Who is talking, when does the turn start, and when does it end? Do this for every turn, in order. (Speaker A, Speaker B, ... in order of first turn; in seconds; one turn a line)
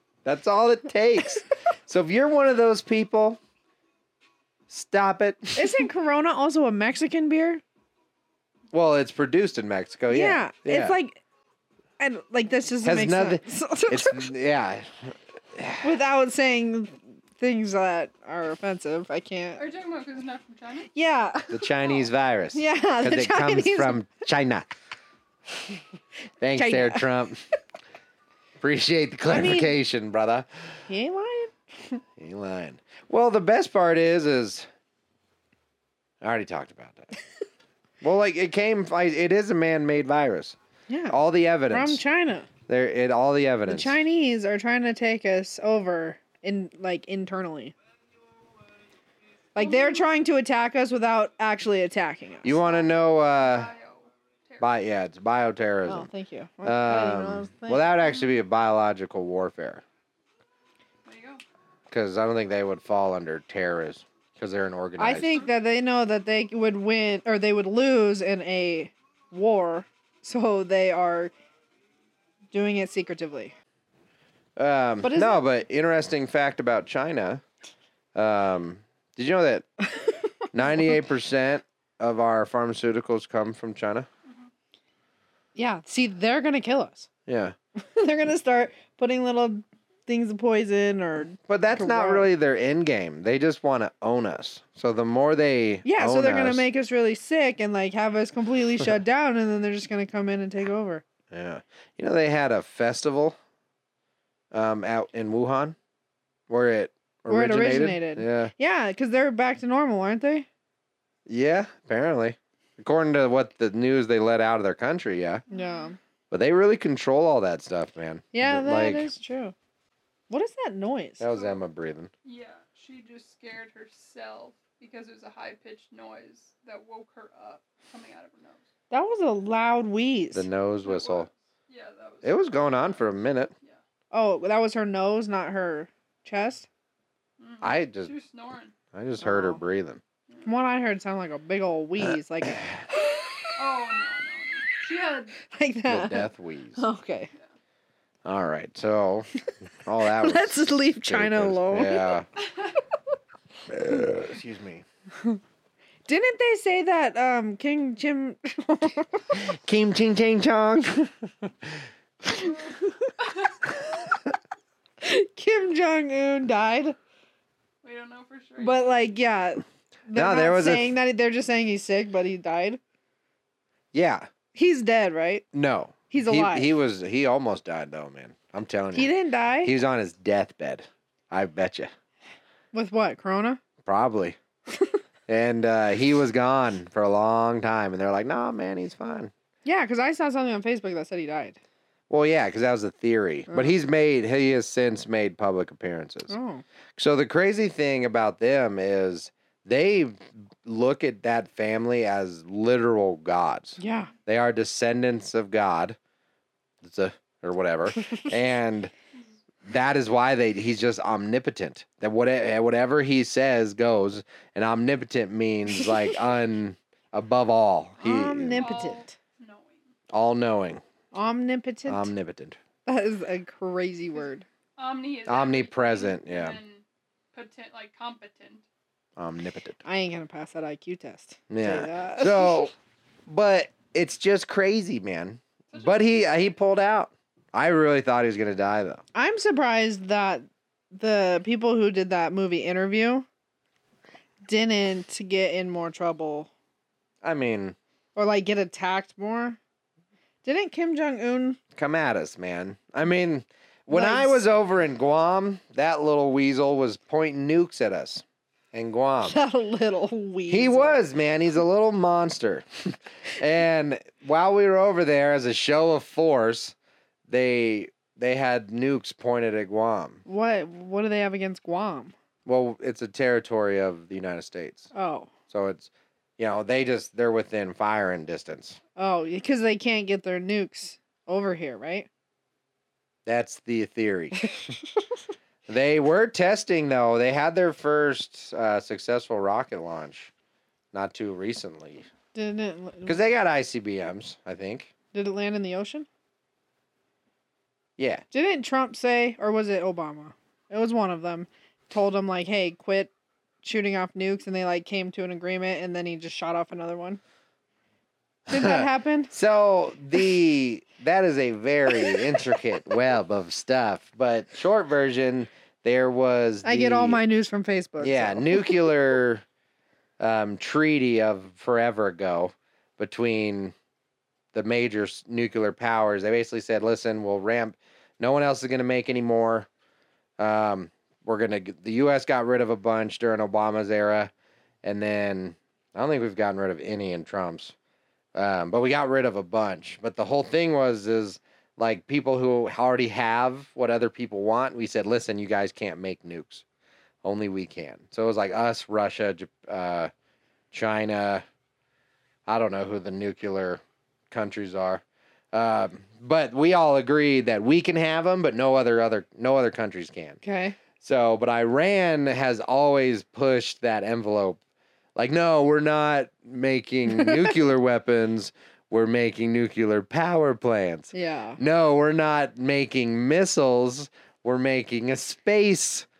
Speaker A: 0.2-3.4
Speaker A: 4.7-5.8
Speaker B: 5.6-7.6
Speaker A: 8.7-10.9
Speaker B: 10.1-11.2
Speaker B: 12.0-14.3
Speaker A: 12.8-15.8
Speaker B: 15.8-19.6
Speaker C: 19.6-20.9
Speaker B: 20.9-21.7
Speaker A: 21.5-24.8
Speaker B: 22.5-24.0
Speaker A: 26.4-27.4
Speaker B: 26.6-27.1
Speaker A: 28.6-30.5
Speaker B: 29.3-29.8
Speaker B: 30.9-32.0
Speaker A: 32.2-34.7
Speaker A: 36.2-37.1
Speaker A: 38.0-40.6
Speaker B: 40.9-41.2
Speaker A: 41.1-42.0
Speaker B: 41.7-42.5
Speaker A: 42.7-44.0
Speaker B: 43.7-47.8
Speaker B: 49.5-52.6
Speaker C: 49.6-50.0
Speaker A: 52.4-53.7
Speaker C: 52.6-54.7
Speaker A: 54.6-56.1
Speaker B: 55.9-57.8
Speaker A: 56.6-59.8
Speaker C: 58.1-58.4
Speaker C: 61.0-61.4
Speaker A: 61.9-65.4
Speaker B: 65.0-71.3
Speaker B: 72.5-73.5
Speaker A: 74.6-77.4
Speaker B: 75.0-75.4
Speaker A: 78.1-79.7
Speaker A: 80.5-84.1
Speaker B: 85.5-87.1
Speaker A: 87.3-87.5
Speaker B: 87.8-92.3
Speaker A: 91.5-96.6
Speaker B: 95.8-101.0
Speaker A: 101.3-103.4
Speaker A: 104.5-105.8
Speaker A: 106.5-108.5
Speaker B: 107.3-110.5
Speaker A: 111.3-115.4
Speaker C: 115.5-115.9
Speaker B: 115.5-116.0
Speaker A: 116.3-119.1
Speaker B: 118.3-119.5
Speaker B: 120.3-121.2
Speaker A: 121.2-122.1
Speaker C: 121.3-121.6
Speaker C: 122.2-128.6
Speaker B: 128.9-130.5
Speaker A: 130.3-131.3
Speaker C: 130.8-133.8
Speaker A: 132.2-133.5
Speaker B: 134.1-136.7
Speaker C: 137.4-138.8
Speaker A: 137.6-138.1
Speaker A: 138.9-140.0
Speaker B: 139.2-139.6
Speaker B: 140.5-143.3
Speaker C: 143.5-145.4
Speaker B: 145.4-147.3
Speaker A: 145.9-146.8
Speaker A: 148.2-152.3
Speaker B: 150.0-152.1
Speaker A: 153.7-154.8
Speaker B: 156.1-159.4
Speaker A: 159.3-161.1
Speaker B: 165.0-167.0
Speaker C: 167.8-168.9
Speaker B: 168.6-172.8
Speaker A: 170.1-170.9
Speaker A: 173.9-174.3
Speaker B: 174.6-175.4
Speaker A: 175.5-181.9
Speaker B: 176.1-176.7
Speaker B: 178.9-179.7
Speaker B: 182.7-183.6
Speaker A: 183.8-184.4
Speaker A: 185.3-189.3
Speaker B: 189.6-191.6
Speaker A: 192.1-196.3
Speaker B: 196.3-196.6
Speaker A: 197.0-206.0
Speaker B: 203.8-204.1
Speaker A: 206.8-208.9
Speaker A: 209.6-218.7
Speaker B: 218.0-219.1
Speaker C: 218.6-219.9
Speaker A: 220.1-220.8
Speaker B: 221.1-222.1
Speaker A: 221.9-222.6
Speaker B: 222.9-224.4
Speaker C: 224.8-228.7
Speaker A: 225.3-226.6
Speaker A: 229.2-229.8
Speaker B: 229.8-232.7
Speaker A: 231.5-232.7
Speaker A: 233.3-239.0
Speaker C: 235.7-236.5
Speaker B: 239.1-243.3
Speaker B: 244.4-246.5
Speaker A: 247.2-247.8
Speaker B: 248.2-249.6
Speaker B: 250.4-251.6
Speaker A: 251.8-259.4
Speaker B: 253.9-254.4
Speaker B: 259.2-261.0
Speaker A: 260.5-266.7
Speaker A: 267.3-270.2
Speaker B: 270.3-272.1
Speaker A: 272.4-274.9
Speaker B: 274.9-275.3
Speaker A: 275.5-278.8
Speaker B: 279.0-282.1
Speaker A: 283.3-284.6
Speaker A: 285.7-290.3
Speaker A: 290.9-292.1
Speaker B: 292.3-293.2
Speaker A: 293.1-294.9
Speaker B: 295.1-296.1
Speaker A: 298.0-298.2
Speaker B: 298.3-303.1
Speaker B: 303.6-307.2
Speaker A: 308.5-317.2
Speaker B: 308.5-309.3
Speaker B: 312.0-312.3
Speaker B: 316.6-318.9
Speaker A: 318.0-319.4
Speaker A: 320.2-323.7
Speaker A: 324.5-329.7
Speaker A: 330.4-334.3
Speaker A: 334.8-337.7
Speaker A: 338.4-346.6
Speaker A: 347.2-350.1
Speaker A: 350.7-351.4
Speaker A: 352.5-360.4
Speaker B: 360.4-360.8
Speaker A: 361.0-364.6
Speaker A: 365.2-376.1
Speaker B: 371.1-371.6